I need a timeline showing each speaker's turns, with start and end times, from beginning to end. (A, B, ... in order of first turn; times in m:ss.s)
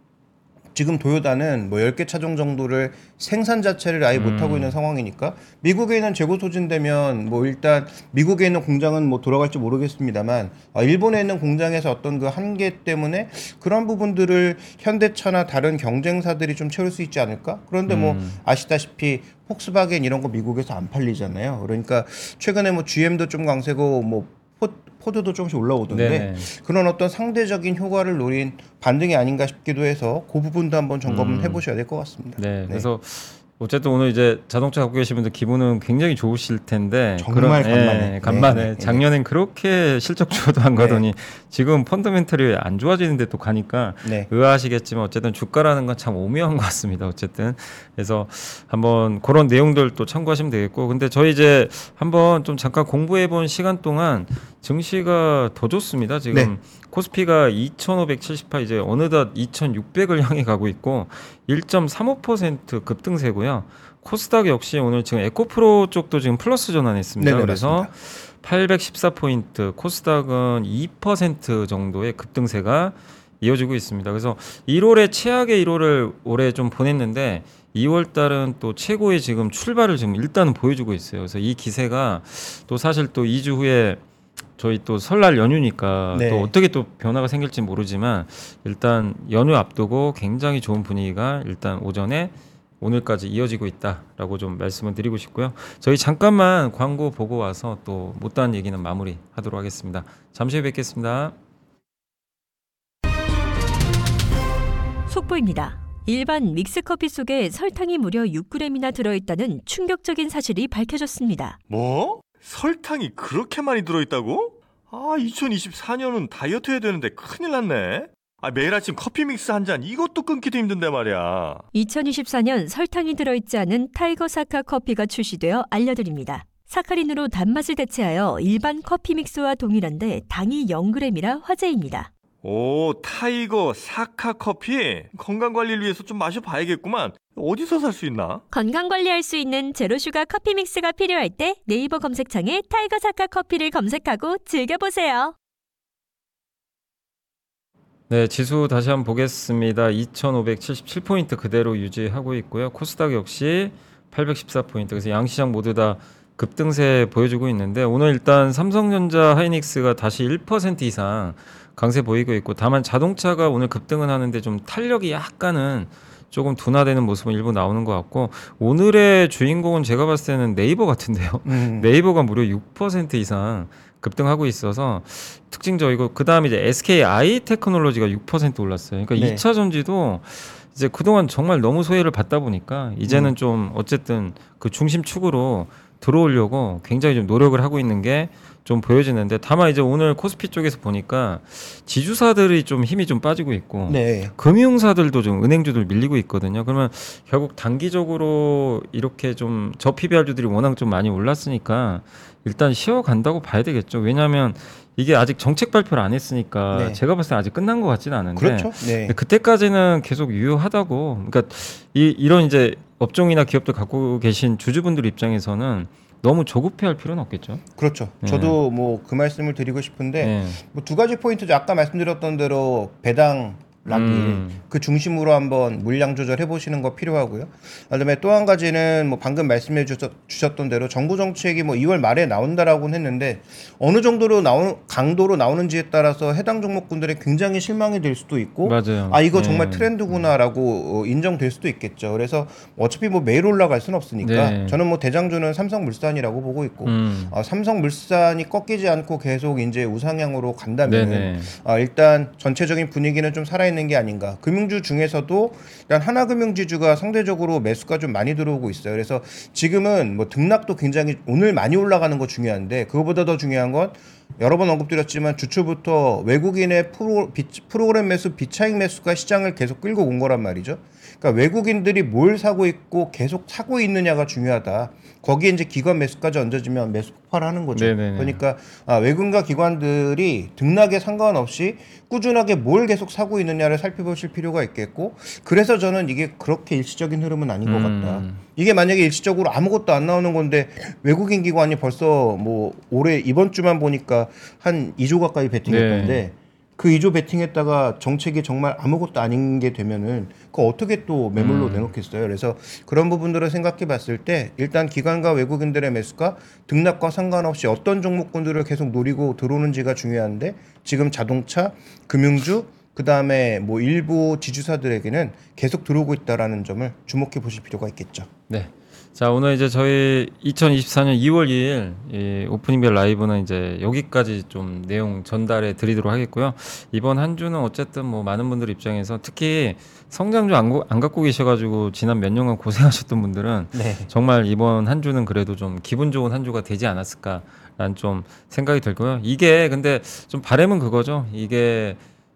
0:00.7-0:32.9 A
0:04.2-0:04.8 B
0:17.9-0:18.4 B
0:25.9-0:26.5 B
0:31.1-0:31.6 B
0:32.4-1:24.0 B
0:37.2-0:39.0 A
0:40.8-0:41.0 A
0:44.0-0:44.3 A
1:07.2-1:07.9 A
1:24.6-1:41.4 B
1:26.1-1:26.5 A
1:45.1-1:51.6 C
1:51.7-2:01.7 D
2:01.7-2:12.1 C
2:12.4-2:18.4 D
2:18.5-2:25.4 C
2:28.1-3:37.6 B
2:51.4-2:51.9 A
2:59.2-2:59.4 A
3:03.1-3:03.3 A
3:13.9-3:14.3 A
3:26.7-3:27.0 A
3:28.4-3:29.2 A
3:37.8-5:18.3 A
3:38.2-3:38.6 B
3:40.2-3:40.6 B
3:43.9-3:44.6 B
3:58.6-4:00.3 B
4:04.2-4:04.8 B
4:06.8-4:07.3 B
4:10.9-4:11.5 B
4:37.7-4:38.4 B
4:47.6-4:48.4 B
4:55.7-4:56.3 B
5:01.4-5:01.9 B
5:18.5-5:42.0 B
5:33.7-5:34.1 A